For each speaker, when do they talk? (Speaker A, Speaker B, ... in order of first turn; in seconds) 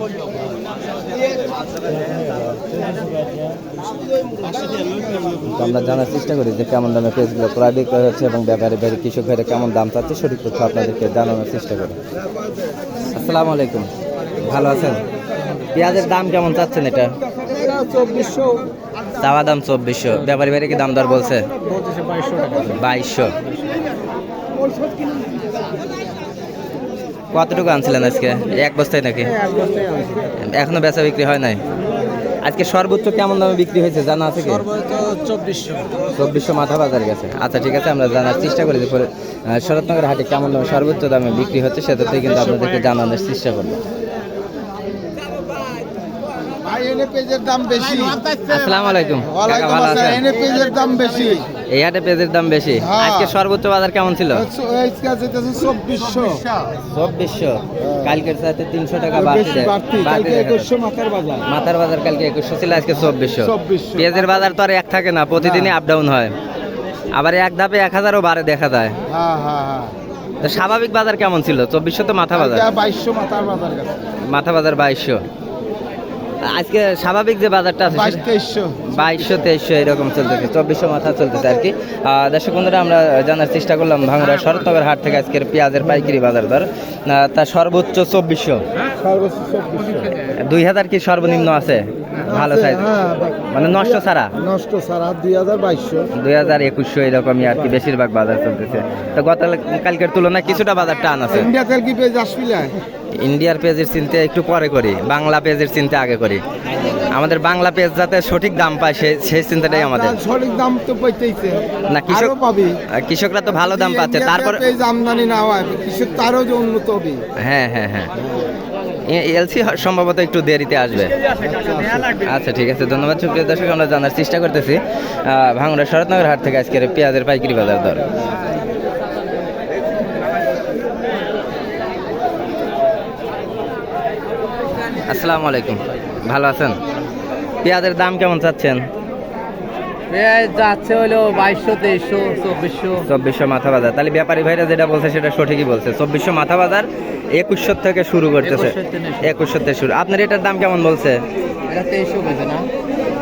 Speaker A: 5.5-12.0, 13.0-15.0, 15.7-17.1, 19.2-21.5, 22.7-23.4, 27.3-29.4, 30.4-31.6, 32.4-34.7, 36.2-43.8, 48.5-50.2, 51.7-54.5, 56.9-60.7, 61.5-66.3, 67.1-69.0, 70.4-72.7, 74.3-75.2, 76.4-78.2, 78.8-88.6, 90.3-94.3, 96.1-101.5, 103.2-110.2, 111.9-112.3, 112.9-114.7, 117.4-118.1, 119.0-121.2, 122.1-128.1, 135.0-136.8, 137.6-138.9, 143.0-151.2
Speaker B: 17.2-18.7, 24.6-25.5, 29.5-30.2, 46.6-48.3, 49.2-51.5, 52.7-53.4, 54.3-56.5, 57.8-58.2, 59.1-61.5, 63.3-64.4, 65.4-65.7, 69.1-70.0, 72.3-74.0, 77.9-78.9, 88.9-90.2, 92.2-93.5, 94.4-96.1, 101.3-102.8, 109.7-112.8, 113.6-117.2, 121.4-122.2
Speaker C: 21.7-22.8, 29.5-29.9, 34.7-35.9, 140.1-143.1, 148.4-149.4, 151.7-152.7